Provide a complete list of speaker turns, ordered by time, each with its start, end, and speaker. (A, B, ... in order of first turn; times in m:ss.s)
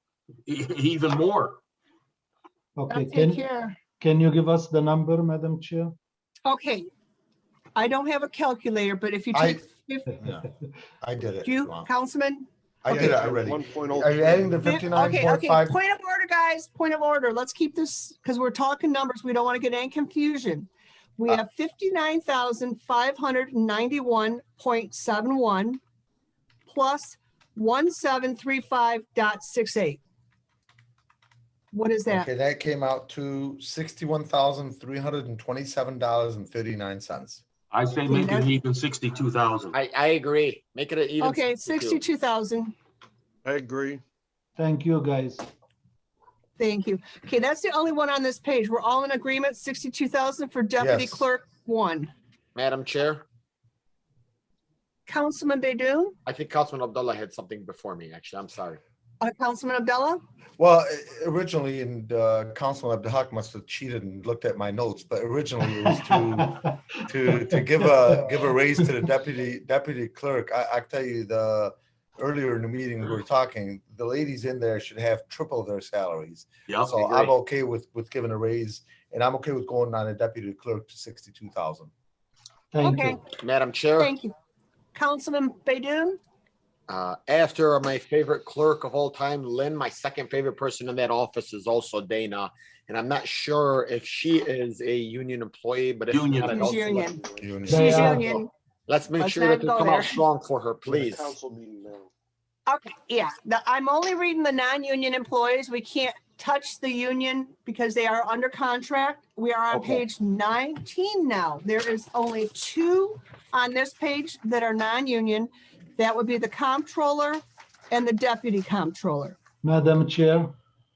0:00.5-0:01.6 A
0:02.8-0:03.4 B
0:02.9-0:03.8 C
0:04.0-0:06.0 B
0:06.4-0:06.9 C
0:07.7-0:10.1 C
0:09.3-0:09.6 D
0:10.2-0:10.5 D
0:11.0-0:11.9 D
0:11.4-0:12.5 C
0:12.8-0:15.7 D
0:12.9-0:14.6 E
0:14.6-0:25.8 C
0:26.7-0:30.0 C
0:31.7-0:32.3 C
0:32.1-0:37.4 D
0:37.7-0:39.7 A
0:38.1-0:38.5 C
0:39.7-0:42.0 F
0:41.2-0:42.7 C
0:43.4-0:44.0 E
0:44.6-0:45.5 B
0:46.6-0:52.1 C
0:50.8-0:51.3 D
0:52.5-0:53.2 F
0:55.1-0:56.2 C
0:56.2-0:58.8 F
0:59.2-1:00.2 C
1:00.6-1:21.9 D
1:05.7-1:08.2 B
1:16.7-1:17.3 A
1:22.7-1:23.2 B
1:22.8-1:23.2 C
1:23.4-1:24.1 F
1:24.0-1:24.3 C
1:24.9-1:26.2 C
1:26.9-1:37.2 F
1:36.1-1:36.7 A
1:36.5-1:38.5 C
1:37.4-1:38.0 D
1:37.6-1:38.4 B
1:38.9-1:41.3 F
1:39.2-1:40.2 C
1:40.9-1:42.1 E
1:42.7-1:59.4 C
1:59.6-2:00.5 B